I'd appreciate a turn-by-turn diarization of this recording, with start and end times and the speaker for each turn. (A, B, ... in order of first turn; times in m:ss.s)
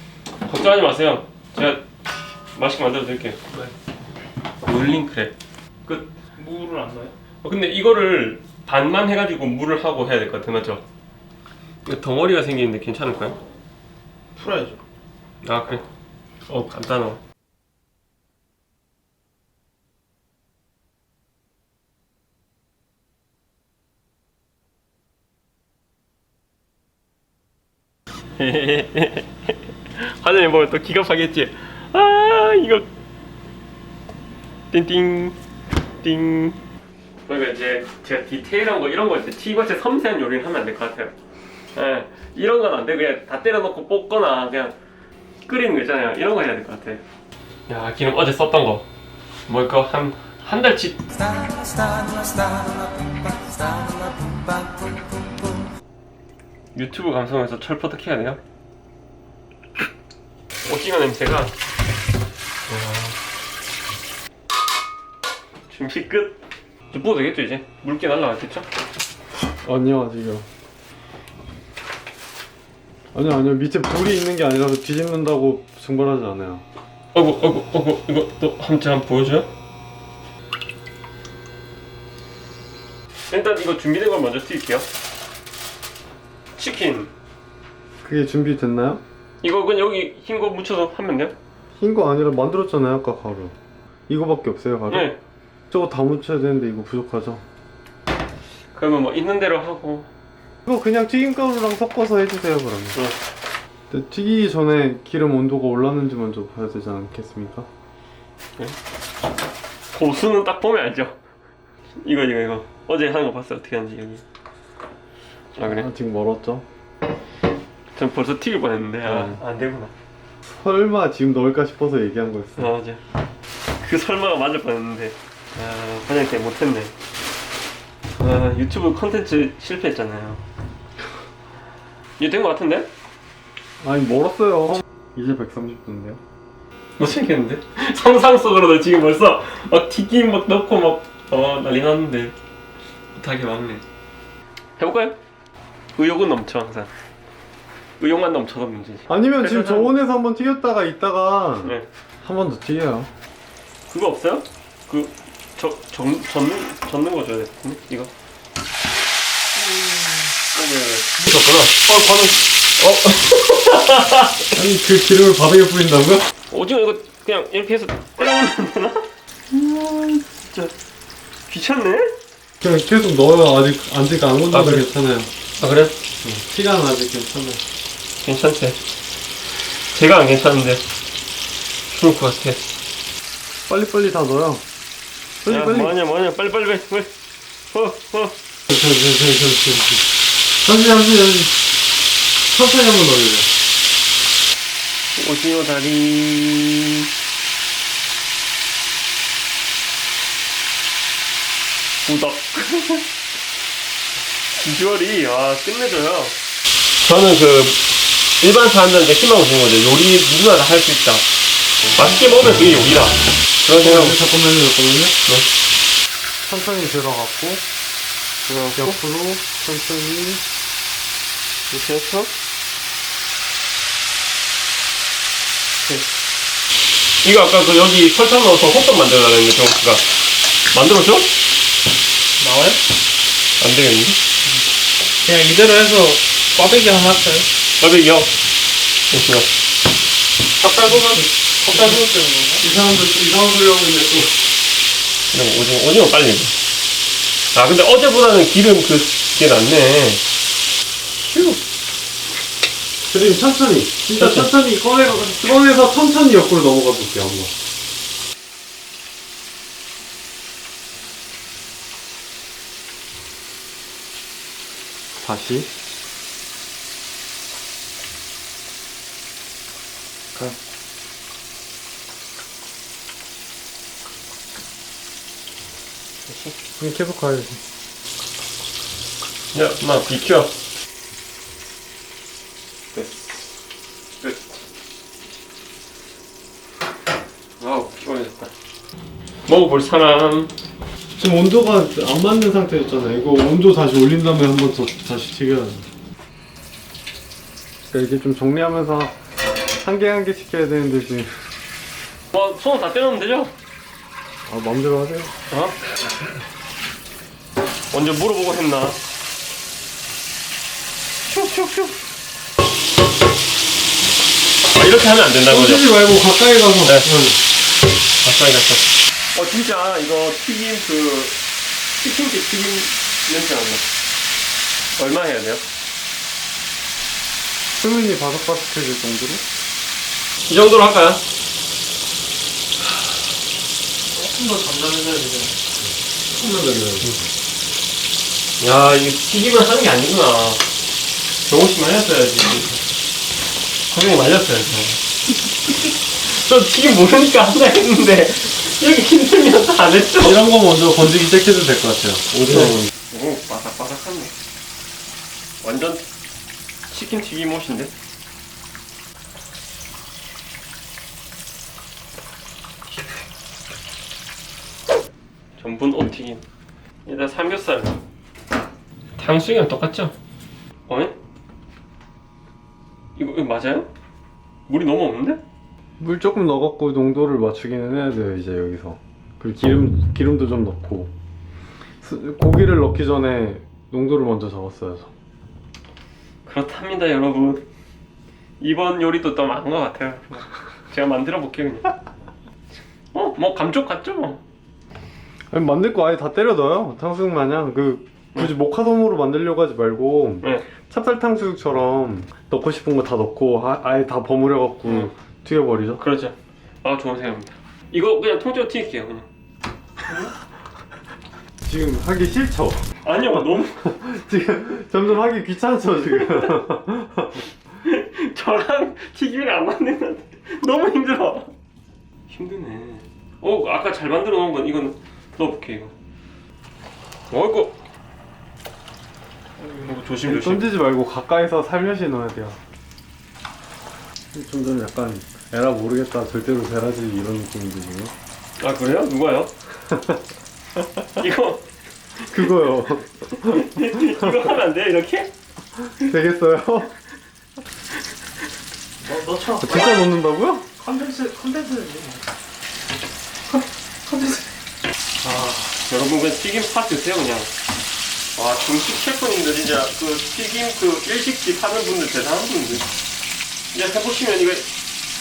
0:00.5-0:01.8 A
0:02.5-0:03.4 A
0:04.6-0:05.3 A
0:05.8-0:06.1 A
0:06.4-0:07.1 B
0:07.4-0:10.8 A
0:11.8-0:13.4 A
0:14.4-0:14.8 B
0:15.4-0:15.8 A
0:16.5-0:17.2 A
0:28.4-0:32.9 A
0:34.7-0:35.4 A
0:36.0-0:36.6 A
0:37.3-0:41.1 A
0:41.8-0:44.8 A
0:45.5-0:47.0 A
0:47.7-0:48.9 A
0:49.5-0:55.0 A
0:56.8-0:58.4 A
1:00.6-1:01.6 A
1:02.7-1:03.2 A
1:05.7-1:06.4 A
1:06.9-1:08.7 A
1:09.6-1:10.5 C
1:13.1-1:16.6 C
1:17.1-1:19.5 A
1:23.3-1:24.9 A
1:26.6-1:27.1 A
1:28.0-1:29.0 C
1:29.4-1:31.3 A
1:31.8-1:33.5 C
1:34.1-1:35.1 C
1:34.9-1:35.2 A
1:35.7-1:37.4 C
1:38.7-1:40.1 A
1:40.7-1:43.0 C
1:43.9-1:47.7 C
1:49.9-1:51.2 A
1:52.0-1:54.2 A
1:55.5-1:55.9 A
1:55.6-1:56.6 C
1:57.9-1:59.9 A
1:59.0-1:59.4 C
2:00.5-2:02.7 C
2:02.6-2:03.0 A
2:03.8-2:06.9 A
2:08.2-2:10.4 A
2:12.2-2:12.9 A
2:13.8-2:16.2 C
2:17.0-2:22.3 A
2:23.2-2:23.8 A
2:24.8-2:25.2 A
2:25.9-2:26.9 A
2:28.0-2:29.9 A
2:29.1-2:33.1 C
2:33.9-2:38.1 A
2:39.6-2:39.9 A
2:40.5-2:44.4 A
2:44.5-2:46.3 C
2:46.5-2:49.1 A
2:49.5-2:50.2 C
2:50.3-2:50.7 A
2:51.5-2:52.1 A
2:52.6-2:55.3 C
2:54.5-2:54.9 A
2:55.6-2:56.0 A
2:56.2-2:57.6 C
2:58.2-2:58.8 A
2:59.9-3:00.8 A
3:01.9-3:02.6 A
3:03.7-3:04.6 C
3:05.4-3:05.9 C
3:05.5-3:07.1 A
3:07.7-3:08.4 A
3:08.7-3:10.1 C
3:10.6-3:11.6 C
3:12.5-3:13.5 C
3:15.2-3:17.1 A
3:22.0-3:23.1 A
3:24.6-3:26.4 A
3:27.0-3:31.2 A
3:31.9-3:34.2 A
3:33.8-3:35.2 C
3:36.4-3:37.6 C
3:38.4-3:39.0 A
3:38.8-3:40.4 C
3:41.7-3:42.3 A
3:47.2-3:50.1 A
3:50.7-3:51.3 A
3:52.4-3:52.8 B
3:53.6-3:54.2 A
3:55.2-3:57.5 B
3:57.8-3:58.3 A
3:59.1-3:59.5 A
4:00.6-4:01.9 C
4:01.6-4:02.6 B
4:02.6-4:04.4 C
4:05.3-4:06.6 A
4:07.5-4:10.2 A
4:13.0-4:17.5 C
4:14.2-4:14.5 A
4:25.2-4:25.7 C
4:36.3-4:36.6 A
4:36.8-4:37.6 C
4:39.5-4:40.5 A
4:42.9-4:43.4 A
4:44.2-4:44.5 A
4:47.6-4:48.5 A
4:49.4-4:50.5 A
4:51.2-4:55.9 C
4:57.9-4:59.1 C
4:59.8-5:01.5 C
5:02.3-5:03.5 A
5:04.5-5:05.3 C
5:05.5-5:05.8 A
5:07.9-5:09.0 A
5:11.2-5:12.0 A
5:14.7-5:16.1 A
5:15.5-5:17.4 C
5:16.8-5:17.1 A
5:18.2-5:21.4 A
5:22.0-5:23.9 A
5:25.0-5:25.6 A
5:27.8-5:29.4 C
5:30.5-5:31.2 A
5:34.1-5:35.6 B
5:36.4-5:37.2 C
5:36.5-5:37.2 A
5:38.6-5:40.6 A
5:41.4-5:42.9 A
5:43.9-5:45.0 A
5:46.2-5:50.5 A
5:50.2-5:52.8 C
5:52.4-5:54.3 A
5:55.6-5:56.1 A
5:56.9-5:58.0 A
6:05.6-6:06.4 A
6:07.1-6:08.0 A
6:09.2-6:10.1 A
6:10.9-6:11.2 A
6:13.2-6:13.9 A
6:14.7-6:15.4 A
6:16.0-6:21.1 C
6:22.0-6:25.1 C
6:26.5-6:27.6 A
6:28.6-6:32.0 A
6:33.1-6:34.4 A
6:35.5-6:46.0 C
6:44.9-6:45.1 A
6:46.0-6:49.3 A
6:51.6-6:57.4 C
6:53.0-6:53.9 A
6:57.8-7:01.5 A
7:02.3-7:05.9 A
7:07.3-7:07.8 A
7:09.8-7:10.8 A
7:10.2-7:12.6 C
7:14.3-7:18.1 C
7:18.6-7:19.5 A
7:19.9-7:20.2 C
7:21.1-7:21.6 A
7:22.3-7:24.4 C
7:23.4-7:25.3 A
7:26.0-7:26.9 C
7:29.0-7:29.9 B
7:29.6-7:30.7 C
7:30.8-7:32.2 B
7:34.0-7:34.5 B
7:35.3-7:35.6 C
7:35.9-7:37.5 A
7:38.4-7:42.9 A
7:43.7-7:44.7 A